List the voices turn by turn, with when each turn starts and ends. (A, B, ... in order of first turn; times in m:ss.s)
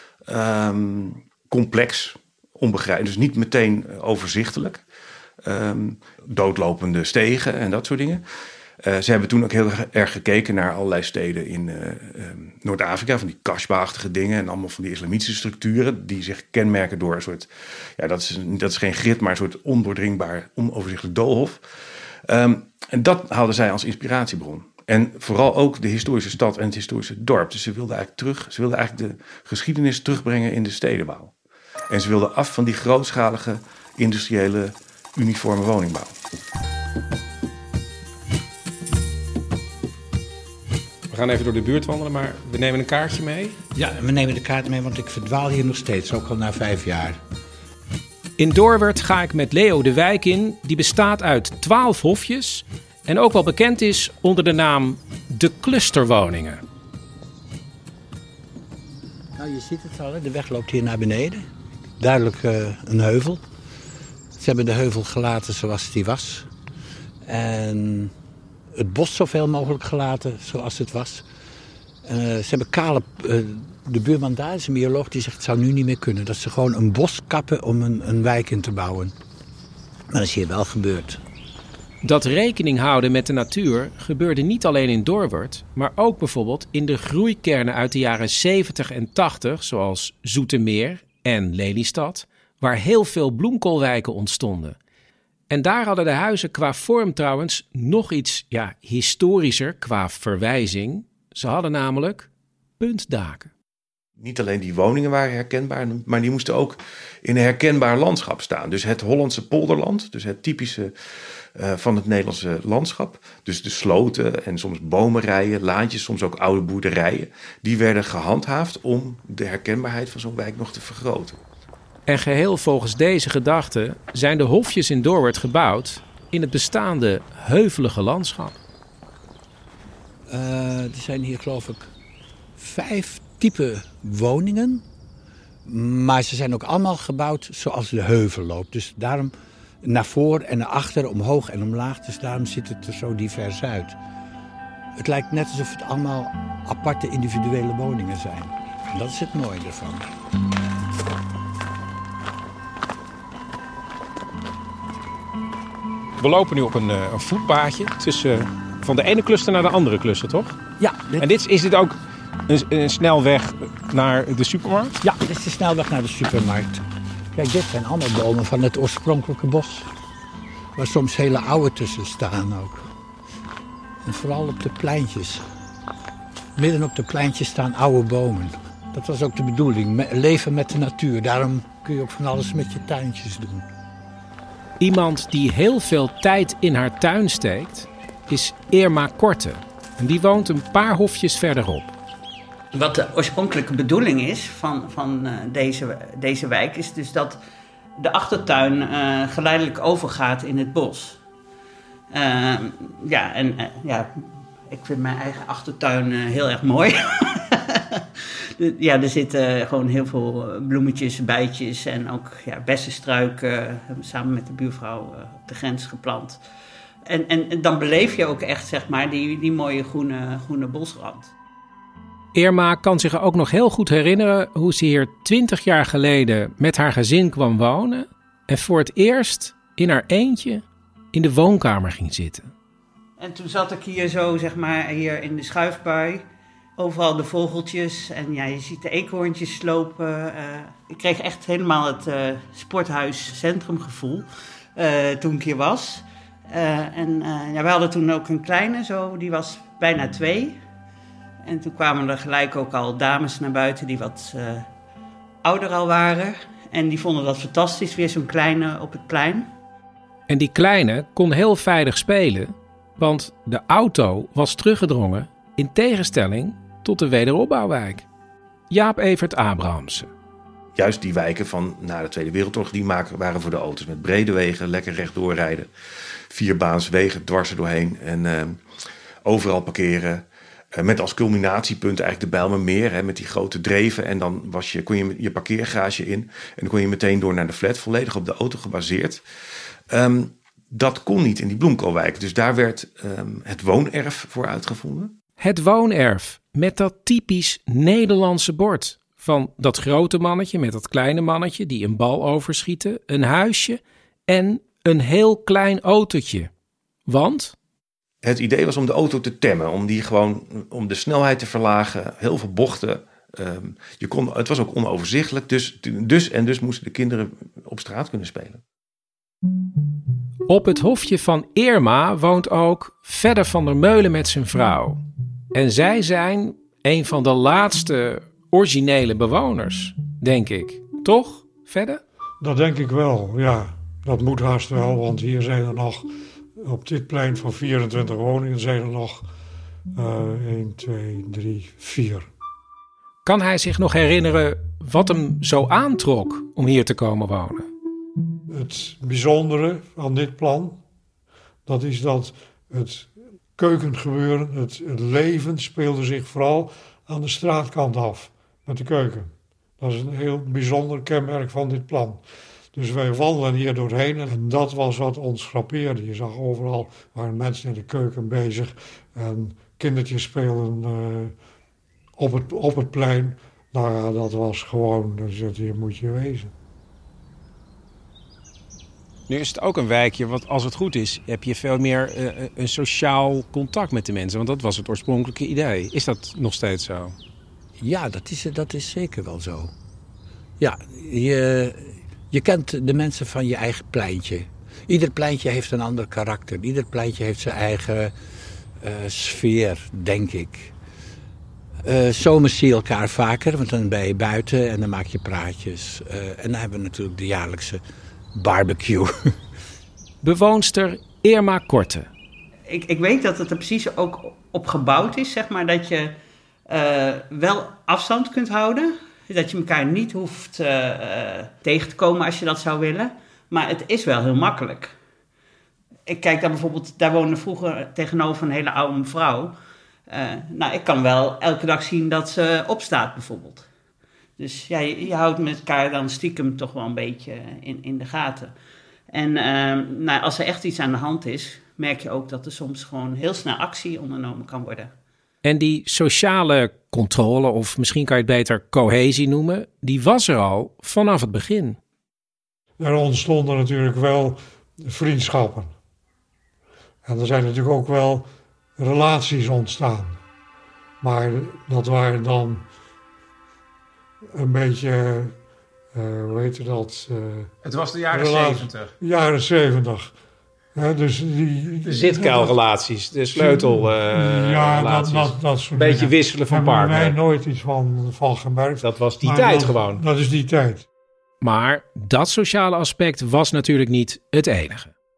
0:00.3-0:04.8 A
0:05.4-0:08.2 A
0:08.8-0:21.6 A
0:22.2-0:31.3 A
0:31.9-0:36.1 A
0:41.1-0:43.6 B
0:43.7-0:47.2 C
0:48.4-0:56.6 B
0:59.4-1:01.5 C
1:02.0-1:03.4 C
1:04.4-1:06.5 C
1:07.2-1:08.1 C
1:08.7-1:11.2 C
1:12.0-1:19.1 C
1:20.1-1:21.2 C
1:22.0-1:34.8 B
1:35.5-1:42.3 B
1:42.8-1:43.5 B
1:44.2-1:50.9 A
1:51.6-2:01.4 A
2:02.1-2:08.6 B
2:10.3-2:11.9 C
2:12.6-2:14.8 C
2:15.6-2:24.0 C
2:25.0-2:30.1 C
2:36.2-2:40.5 B
2:40.8-2:41.3 C
2:41.2-2:41.9 B
2:42.5-2:44.9 B
2:45.0-2:49.9 C
2:50.8-2:52.9 C
2:54.0-2:55.4 C
2:56.6-3:03.6 C
3:04.8-3:11.9 B
3:12.7-3:17.4 D
3:18.0-3:21.2 D
3:22.1-3:24.1 D
3:24.7-3:28.0 D
3:28.6-3:36.4 D
3:37.1-3:41.3 D
3:42.3-3:52.5 B
3:53.2-3:56.2 D
3:56.8-4:10.6 D
4:11.4-4:14.7 D
4:15.4-4:19.5 D
4:20.3-4:28.0 B
4:28.7-4:30.1 B
4:30.8-4:35.7 A
4:36.3-4:38.6 A
4:39.2-4:49.2 A
4:49.9-4:55.1 A
4:55.4-5:06.5 B
5:07.1-5:07.5 B
5:08.2-5:18.6 A
5:20.5-5:25.0 B
5:25.5-5:32.0 B
5:32.4-5:39.3 E
5:39.9-5:42.3 E
5:43.2-5:47.7 B
5:48.5-5:50.8 E
5:51.6-6:02.2 E
6:02.7-6:11.3 E
6:12.2-6:16.5 E
6:19.3-6:27.2 B
6:27.8-6:29.7 C
6:30.6-6:38.1 C
6:38.8-6:40.7 C
6:41.8-6:47.8 C
6:48.3-6:49.3 C
6:50.2-6:52.1 B
6:52.7-6:56.2 D
6:56.7-7:04.9 D
7:06.0-7:09.5 D
7:10.1-7:13.6 D
7:14.4-7:18.5 D
7:19.1-7:24.9 D
7:25.4-7:31.8 B
7:32.8-7:35.7 E
7:37.0-7:40.2 E
7:41.0-7:42.7 E
7:44.3-7:45.4 E
7:45.9-7:47.5 E
7:47.6-7:48.9 B
7:48.1-7:50.1 E
7:50.7-7:52.6 E
7:51.8-7:57.2 B
7:53.3-8:00.8 E
7:58.8-8:00.0 B
8:01.4-8:04.9 B